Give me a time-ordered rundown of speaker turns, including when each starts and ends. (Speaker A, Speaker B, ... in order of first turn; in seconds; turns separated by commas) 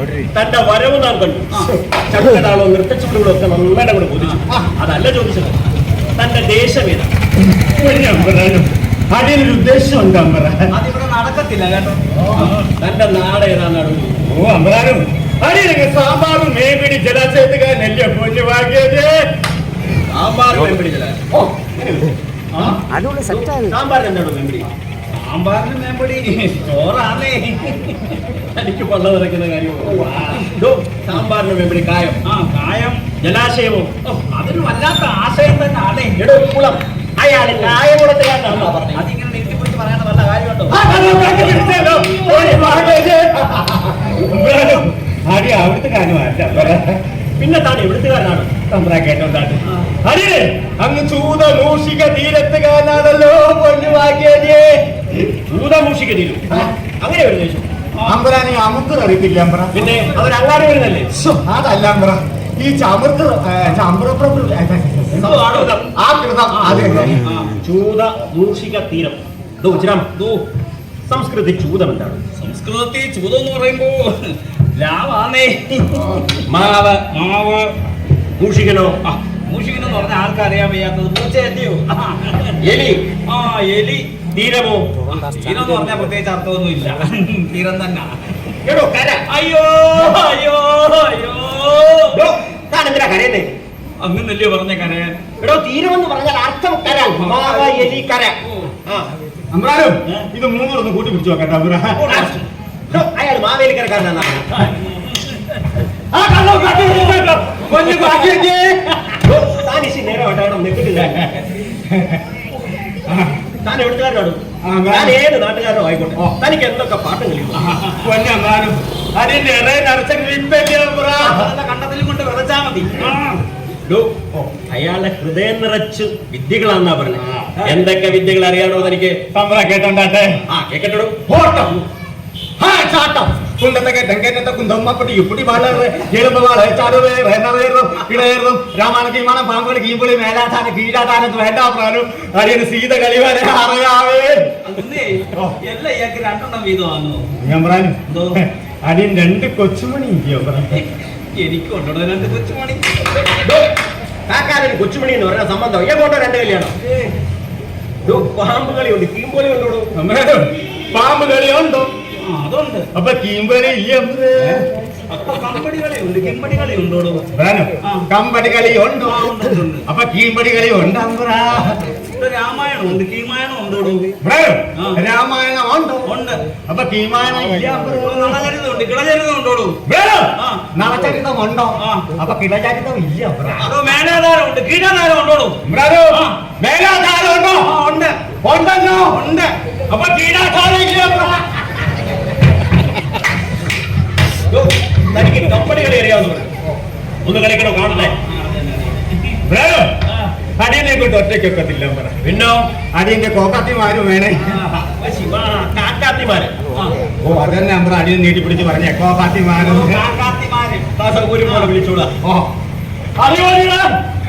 Speaker A: 0.3-5.6, Speaker A: 6.2-7.1, Speaker B: 7.6-10.7, Speaker C: 10.7-12.6, Speaker B: 12.1-12.5, Speaker A: 12.7-14.1, Speaker B: 14.3-19.2, Speaker A: 20.1-24.7, Speaker C: 25.2-28.2, Speaker A: 28.5-32.2, Speaker C: 32.2-33.0, Speaker A: 33.2-34.1, Speaker C: 34.2-36.2, Speaker A: 36.1-39.0, Speaker C: 38.8-42.5, Speaker B: 40.7-47.0, Speaker A: 47.4-48.6, Speaker B: 48.7-55.1, Speaker A: 55.5-57.6, Speaker B: 58.0-59.9, Speaker A: 59.7-61.1, Speaker B: 61.1-65.3, Speaker C: 65.1-65.9, Speaker A: 65.2-65.8, Speaker B: 66.0-67.2, Speaker C: 66.5-67.5, Speaker A: 67.6-70.1, Speaker C: 70.1-70.4, Speaker A: 71.1-72.2, Speaker C: 72.4-76.2, Speaker A: 76.5-77.0, Speaker C: 76.9-77.7, Speaker A: 78.4-79.0, Speaker C: 79.0-82.5, Speaker A: 82.6-83.1, Speaker C: 83.3-84.1, Speaker A: 84.3-85.0, Speaker C: 85.1-88.1, Speaker A: 88.6-89.2, Speaker C: 89.3-92.2, Speaker A: 92.1-93.5, Speaker C: 94.0-95.2, Speaker A: 95.4-99.1, Speaker C: 96.9-97.9, Speaker B: 99.5-102.3, Speaker A: 102.1-102.3, Speaker C: 102.1-102.4, Speaker A: 102.9-104.7, Speaker B: 106.1-109.2, Speaker A: 109.2-111.2, Speaker B: 111.8-112.2, Speaker A: 113.6-117.7, Speaker B: 114.6-115.2, Speaker C: 117.6-118.0, Speaker B: 118.0-121.5, Speaker C: 121.2-123.4, Speaker A: 123.8-124.1, Speaker A: 124.7-129.2, Speaker B: 127.1-127.5, Speaker B: 129.3-130.4, Speaker A: 130.5-131.2, Speaker B: 131.3-131.7, Speaker B: 132.6-144.4, Speaker C: 144.6-147.2, Speaker B: 147.4-150.8, Speaker C: 148.1-148.4, Speaker C: 151.3-152.8, Speaker A: 153.4-153.7, Speaker A: 154.3-156.7, Speaker C: 156.8-157.1, Speaker A: 158.0-159.9, Speaker B: 159.9-161.9, Speaker C: 162.2-162.9, Speaker B: 162.9-164.6, Speaker C: 164.4-167.2, Speaker B: 167.3-169.3, Speaker C: 169.0-169.8, Speaker B: 169.9-171.8, Speaker C: 172.2-174.1, Speaker B: 174.2-176.1, Speaker C: 176.1-176.4, Speaker B: 176.7-178.3, Speaker C: 177.4-179.8, Speaker B: 179.8-183.7, Speaker C: 181.8-182.0, Speaker C: 183.6-185.6, Speaker B: 185.6-187.7, Speaker C: 187.6-188.2, Speaker B: 188.4-189.2, Speaker C: 189.1-189.5, Speaker B: 189.9-191.4, Speaker A: 194.5-196.5, Speaker A: 197.2-198.1, Speaker C: 197.9-199.3, Speaker B: 199.4-199.9, Speaker B: 200.6-202.2, Speaker A: 202.2-202.6, Speaker B: 202.9-204.5, Speaker A: 204.8-206.5, Speaker B: 207.2-210.0, Speaker C: 209.6-210.8, Speaker A: 210.9-212.1, Speaker C: 211.4-211.7, Speaker B: 212.2-212.5, Speaker B: 213.2-213.9